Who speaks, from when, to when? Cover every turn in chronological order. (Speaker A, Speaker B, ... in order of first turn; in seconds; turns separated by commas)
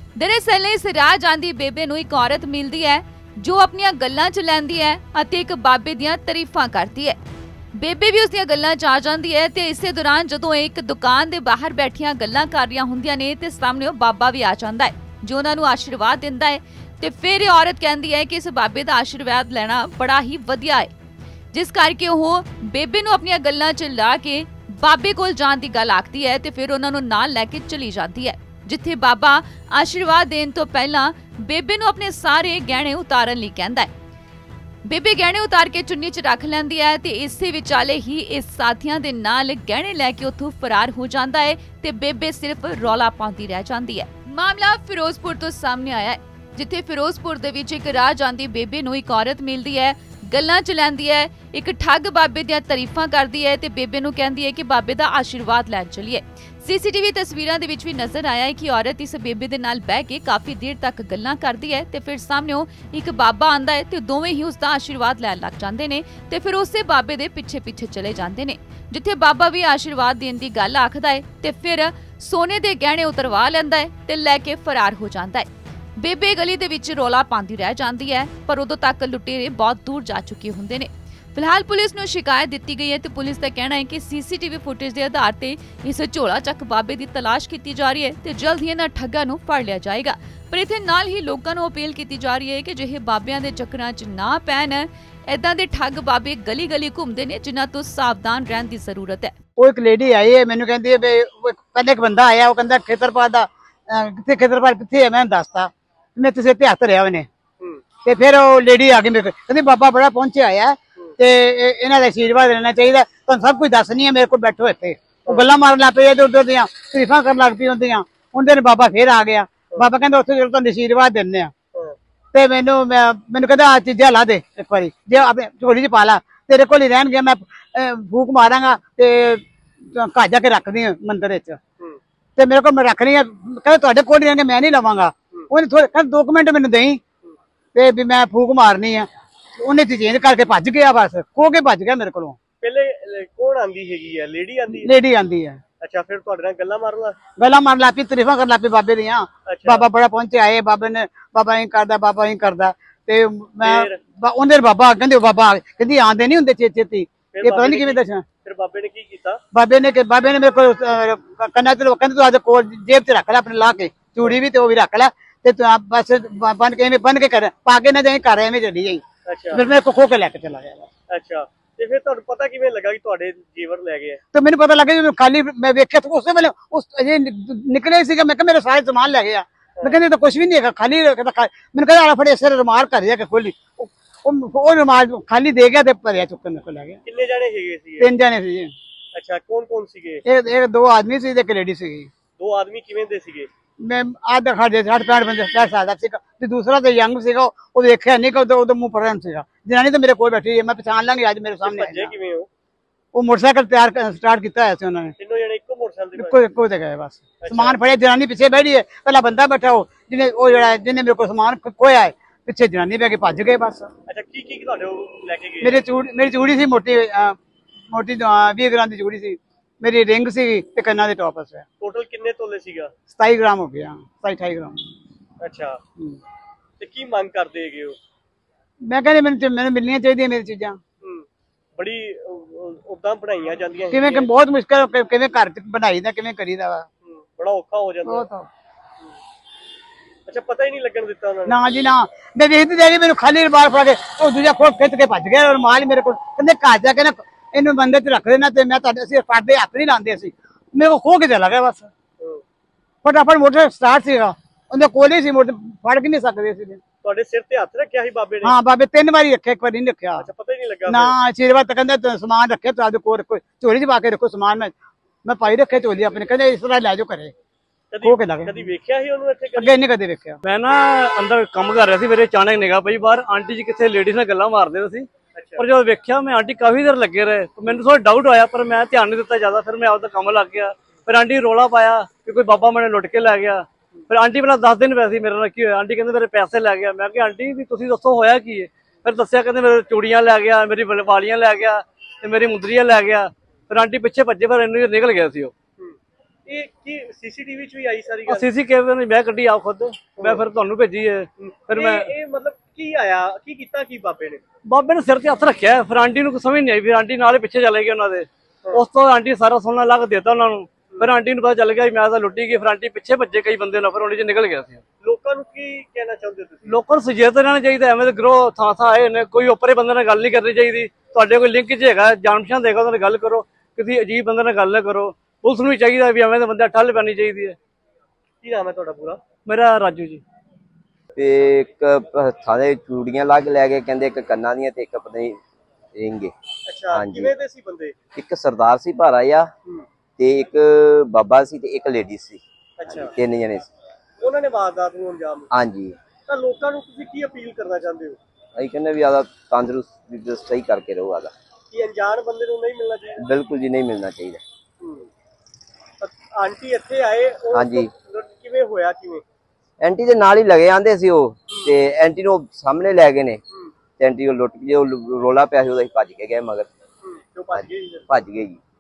Speaker A: 0.2-7.2, Speaker A: 7.8-20.9, Speaker A: 21.5-33.9, Speaker A: 34.9-99.3, Speaker B: 99.6-107.3, Speaker B: 108.0-121.5, Speaker B: 122.3-131.6, Speaker B: 132.4-137.0, Speaker B: 137.8-139.1, Speaker B: 139.6-142.4, Speaker C: 142.6-144.9, Speaker B: 144.7-145.6, Speaker C: 145.8-147.2, Speaker B: 147.4-158.2, Speaker C: 149.5-149.9, Speaker C: 153.6-154.0, Speaker C: 157.3-159.4, Speaker B: 159.5-170.9, Speaker C: 169.3-169.6, Speaker C: 171.1-174.2, Speaker B: 174.3-187.0, Speaker C: 187.1-188.1, Speaker B: 188.0-188.7, Speaker C: 189.2-190.2, Speaker B: 190.3-192.1, Speaker C: 192.4-193.5, Speaker B: 193.8-202.1, Speaker C: 201.6-202.5, Speaker B: 203.1-205.1, Speaker C: 205.2-206.4, Speaker B: 206.2-213.9, Speaker C: 207.4-207.8, Speaker C: 214.1-215.8, Speaker B: 215.6-217.4, Speaker B: 217.9-221.7, Speaker C: 221.8-222.9, Speaker B: 223.1-224.8, Speaker C: 225.4-225.8, Speaker C: 226.8-228.0, Speaker B: 228.8-230.8, Speaker C: 231.0-234.3, Speaker B: 233.9-236.9, Speaker C: 237.0-238.3, Speaker B: 238.1-238.5, Speaker C: 240.3-241.6, Speaker B: 241.5-251.9, Speaker B: 253.0-256.8, Speaker C: 257.0-258.6, Speaker B: 258.4-260.3, Speaker C: 260.2-261.1, Speaker B: 260.9-264.7, Speaker B: 265.2-267.3, Speaker C: 267.9-269.8, Speaker B: 268.0-268.7, Speaker B: 269.6-270.4, Speaker D: 270.4-295.5, Speaker C: 275.4-275.7, Speaker C: 295.8-298.5, Speaker D: 298.3-302.1, Speaker C: 300.2-300.4, Speaker C: 301.4-304.4, Speaker D: 304.7-314.8, Speaker C: 315.0-316.8, Speaker D: 316.6-327.6, Speaker C: 328.4-329.2, Speaker D: 329.5-330.2, Speaker E: 331.2-335.4, Speaker E: 335.9-336.3, Speaker C: 336.7-337.9, Speaker E: 336.9-337.4, Speaker E: 338.1-339.5, Speaker E: 340.2-343.7, Speaker C: 342.8-343.1, Speaker C: 344.2-345.5, Speaker E: 345.5-346.0, Speaker C: 346.3-348.2, Speaker E: 348.6-351.3, Speaker C: 351.7-353.2, Speaker E: 353.2-354.4, Speaker C: 354.8-355.1, Speaker C: 356.0-359.2, Speaker E: 357.5-357.9, Speaker E: 359.8-363.4, Speaker E: 364.0-366.7, Speaker C: 367.0-368.2, Speaker E: 367.5-368.6